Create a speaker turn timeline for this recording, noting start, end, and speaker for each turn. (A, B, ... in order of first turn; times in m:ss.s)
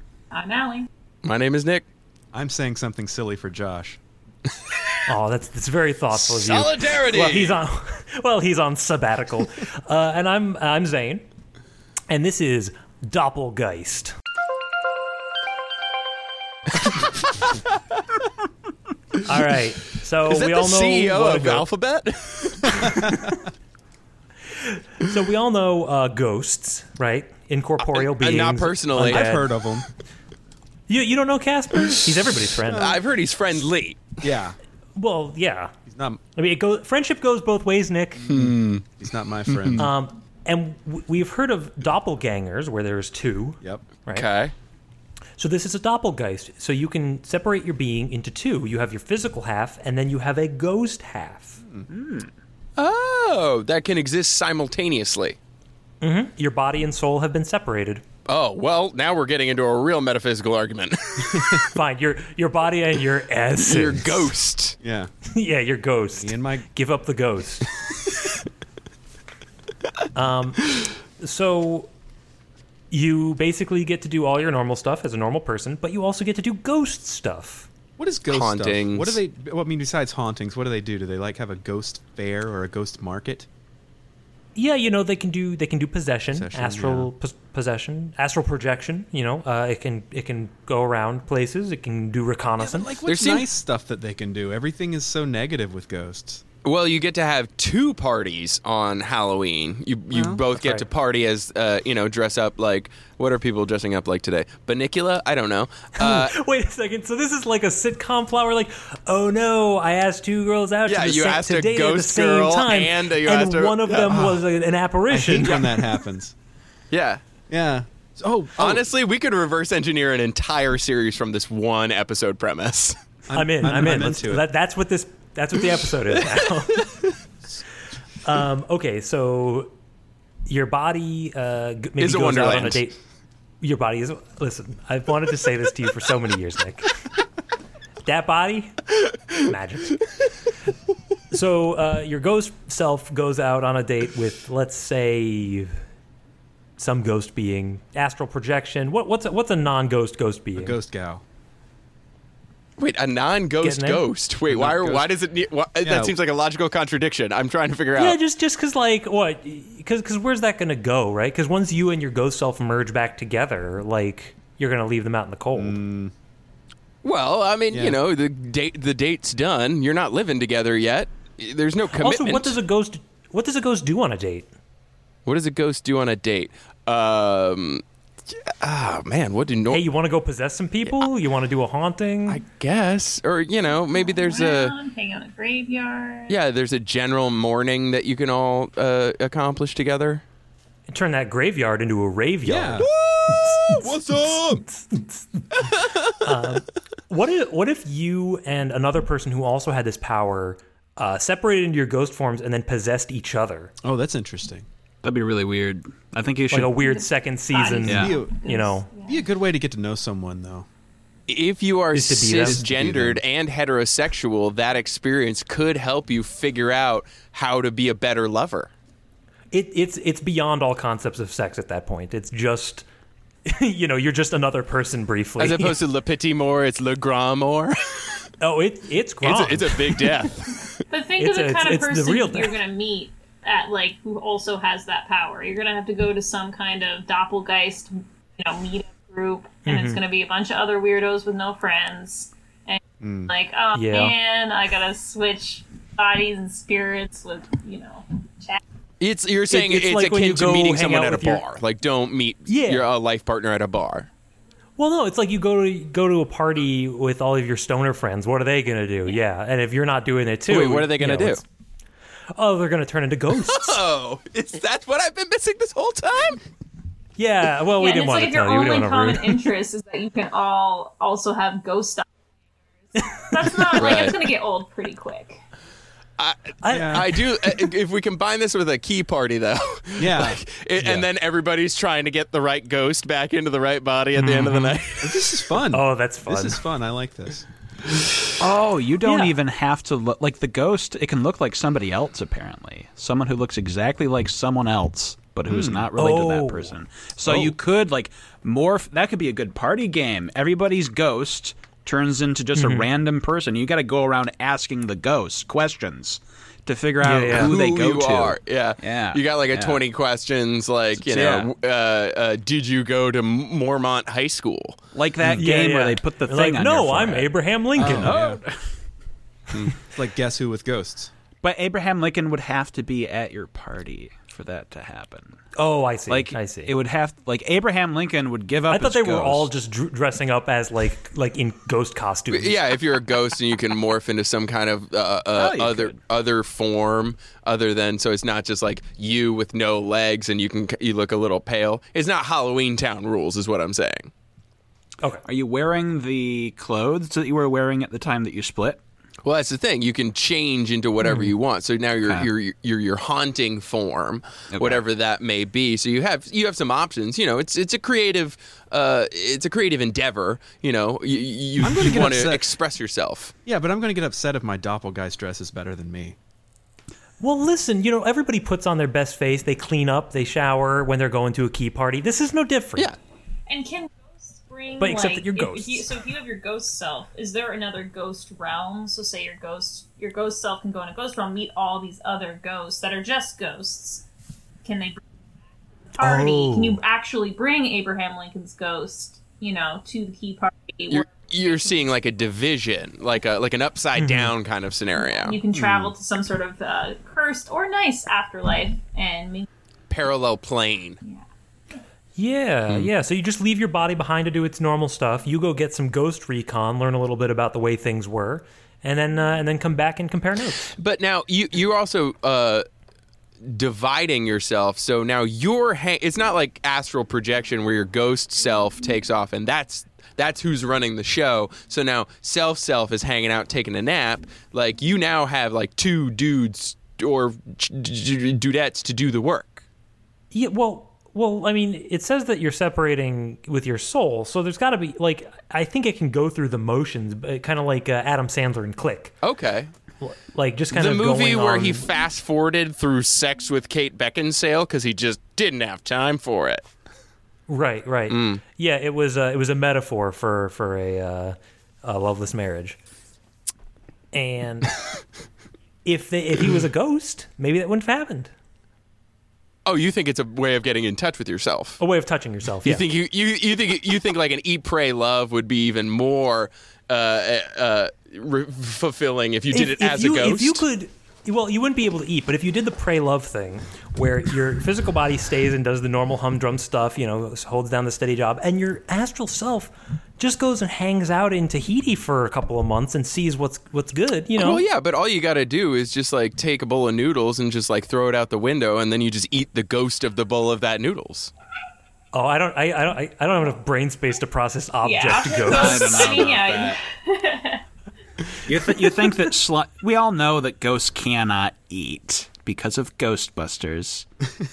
0:00.3-0:00.9 A
0:01.2-0:01.8 B
0:02.3-0:04.0 C
0:05.1-0:11.2 D
0:06.1-0:07.6 B
0:12.1-0:14.1 D
0:16.8-0:17.5 B
0:19.2-0:21.7 D
0:20.2-0:23.2 B
0:23.0-0:23.3 D
0:24.6-0:29.5 D
0:27.8-0:29.3 B
0:29.0-0:29.9 C
0:30.9-0:33.0 D
0:32.7-0:33.0 C
0:32.7-0:34.2 B
0:34.2-0:34.6 C
0:35.0-0:35.7 D
0:35.9-0:36.2 C
0:36.3-0:38.3 D
0:38.3-0:39.9 C
0:38.3-0:38.8 B
0:39.8-0:44.3 D
0:43.6-0:43.9 C
0:44.1-0:44.5 B
0:45.4-0:51.6 D
0:51.9-0:52.3 E
0:52.8-0:55.4 B
0:56.0-0:58.0 D
0:58.3-1:01.7 B
1:01.7-1:04.3 D
1:03.6-1:04.8 B
1:04.8-1:05.1 C
1:05.3-1:07.7 D
1:06.2-1:06.7 C
1:10.2-1:11.9 D
1:12.9-1:17.7 D
1:18.0-1:23.5 C
1:18.3-1:19.2 B
1:24.6-1:32.9 D
1:26.3-1:27.1 C
1:32.6-1:36.4 C
1:33.0-1:33.5 B
1:36.6-1:46.3 B
1:40.1-1:40.4 C
1:40.6-1:40.9 D
1:46.0-1:55.9 D
1:50.9-1:54.1 B
1:54.1-1:54.4 C
1:55.1-1:56.3 C
1:56.9-1:57.2 B
1:57.5-1:58.9 C
1:58.6-2:03.0 B
2:03.3-2:04.4 C
2:03.3-2:06.9 D
2:08.2-2:09.7 D
2:10.4-2:13.0 D
2:12.0-2:12.8 B
2:13.6-2:16.9 D
2:18.0-2:18.8 D
2:19.4-2:20.0 D
2:21.3-2:25.8 D
2:26.8-2:30.8 D
2:30.6-2:31.2 C
2:32.8-2:38.2 B
2:33.6-2:34.0 D
2:34.5-2:35.1 C
2:35.8-2:36.1 C
2:38.0-2:45.8 D
2:45.6-2:46.1 C
2:47.0-2:52.6 B
2:47.7-2:48.0 C
2:51.9-2:54.5 D
2:55.2-2:59.8 B
2:59.7-3:02.4 D
3:02.3-3:04.7 B
3:03.8-3:06.4 A
3:06.3-3:10.2 B
3:10.9-3:23.7 D
3:12.4-3:12.9 C
3:12.9-3:14.0 B
3:13.8-3:14.6 C
3:15.6-3:16.2 B
3:23.8-3:24.7 C
3:25.0-3:26.7 E
3:26.5-3:28.9 D
3:26.8-3:29.2 A
3:27.9-3:28.2 E
3:27.9-3:28.4 C
3:29.0-3:30.7 C
3:31.3-3:38.7 B
3:31.9-3:32.7 D
3:32.4-3:33.2 C
3:39.5-3:42.8 D
3:43.4-3:45.8 D
3:45.4-3:48.3 B
3:48.4-3:50.3 D
3:49.2-3:50.8 B
3:50.9-4:08.6 A
3:51.2-3:52.5 D
3:59.7-4:00.0 D
4:03.0-4:03.3 C
4:03.8-4:04.1 D
4:09.0-4:14.1 B
4:09.5-4:11.4 D
4:12.5-4:12.9 D
4:14.8-4:21.4 D
4:20.5-4:21.4 B
4:22.3-4:23.8 D
4:23.4-4:26.4 B
4:27.2-4:29.5 D
4:27.8-4:32.1 A
4:32.9-4:35.4 A
4:33.8-4:34.2 B
4:36.2-4:45.4 B
4:36.6-4:37.7 D
4:36.7-4:37.0 C
4:40.0-4:40.4 C
4:40.8-4:41.0 D
4:44.2-4:44.8 D
4:45.0-4:47.5 C
4:45.7-4:46.6 D
4:48.4-5:09.8 E
4:49.0-4:49.3 D
4:55.5-4:55.9 C
4:56.0-4:56.8 D
4:57.3-4:57.5 D
5:02.6-5:02.9 D
5:07.0-5:07.5 D
5:07.3-5:14.8 B
5:11.0-5:11.5 E
5:14.9-5:18.7 E
5:15.4-5:18.2 D
5:17.8-5:18.4 C
5:19.8-5:21.1 C
5:21.4-5:25.4 E
5:25.6-5:26.7 D
5:26.1-5:29.5 E
5:28.7-5:32.6 D
5:32.3-5:44.1 B
5:35.3-5:36.0 E
5:45.2-5:48.8 E
5:49.2-6:03.3 B
5:52.0-5:52.3 E
5:54.5-5:54.9 E
6:01.6-6:02.5 C
6:03.5-6:06.2 C
6:07.2-6:12.9 D
6:13.5-6:24.0 A
6:14.8-6:15.9 D
6:24.6-6:25.0 A
6:25.9-6:31.9 A
6:26.0-6:26.8 D
6:30.9-6:35.4 B
6:34.0-6:34.3 D
6:35.1-6:39.5 A
6:35.6-6:35.9 E
6:39.9-6:41.0 B
6:42.2-6:50.8 D
6:50.7-6:52.6 B
6:53.5-7:09.6 B
7:10.3-7:19.2 D
7:19.2-7:19.7 B
7:20.0-7:21.9 D
7:20.7-7:26.6 B
7:27.5-7:32.8 D
7:28.1-7:28.4 B
7:34.1-7:34.8 D
7:35.8-7:38.3 D
7:39.7-7:41.8 B
7:41.8-7:42.8 D
7:42.6-7:50.6 B
7:49.5-8:04.6 D
8:04.4-8:11.3 B
8:12.1-8:16.2 D
8:14.8-8:17.6 A
8:15.4-8:16.8 E
8:18.5-8:24.1 E